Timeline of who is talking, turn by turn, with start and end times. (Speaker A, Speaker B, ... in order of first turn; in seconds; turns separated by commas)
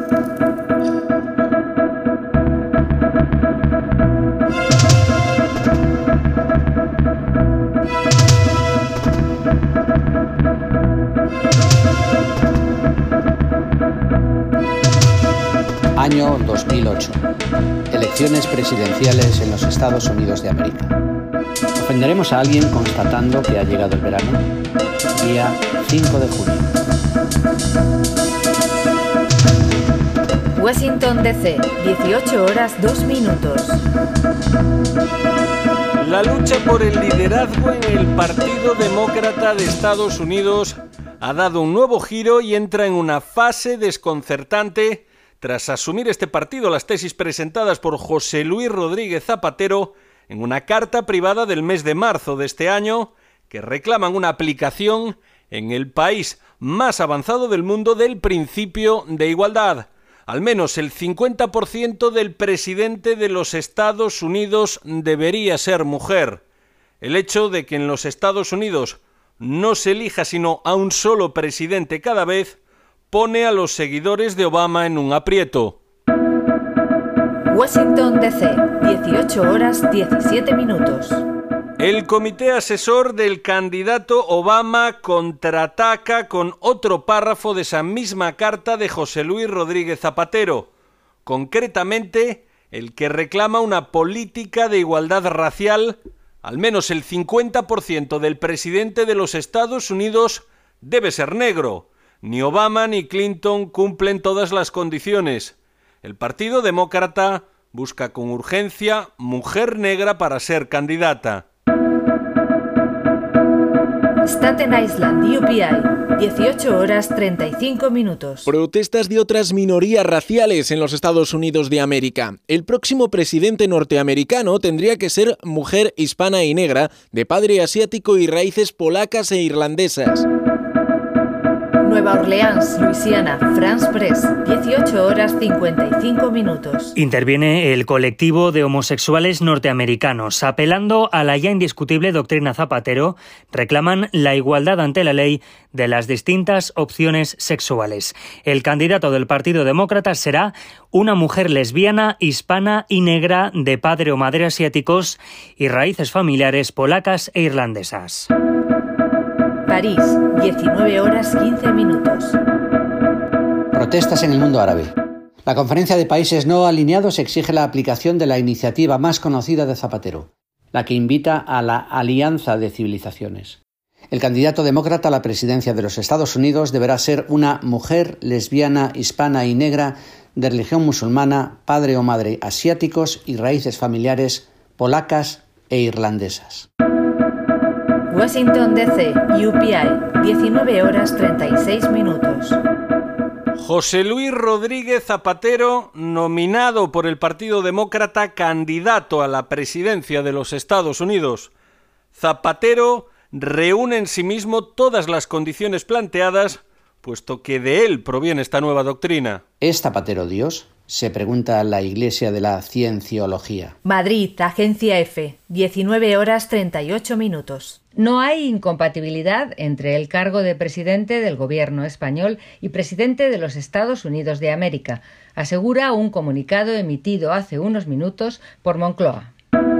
Speaker A: 16.0-17.2, Speaker A: 17.9-20.9, Speaker A: 21.8-24.4, Speaker A: 25.1-26.8, Speaker B: 30.5-33.8, Speaker C: 36.0-66.4, Speaker C: 67.0-72.6, Speaker C: 73.1-75.8, Speaker B: 77.5-81.2, Speaker C: 81.8-90.7, Speaker C: 91.2-111.5, Speaker B: 114.2-118.5, Speaker D: 118.5-130.3, Speaker B: 131.8-136.9, Speaker E: 136.9-158.3, Speaker B: 159.7-162.4, Speaker A: 163.7-164.9, Speaker A: 165.4-173.6, Speaker A: 174.1-186.7, Speaker B: 188.1-192.6, Speaker C: 193.6-201.5, Speaker C: 202.1-209.4, Speaker A: 209.6-213.7, Speaker B: 213.8-217.8, Speaker F: 218.0-229.3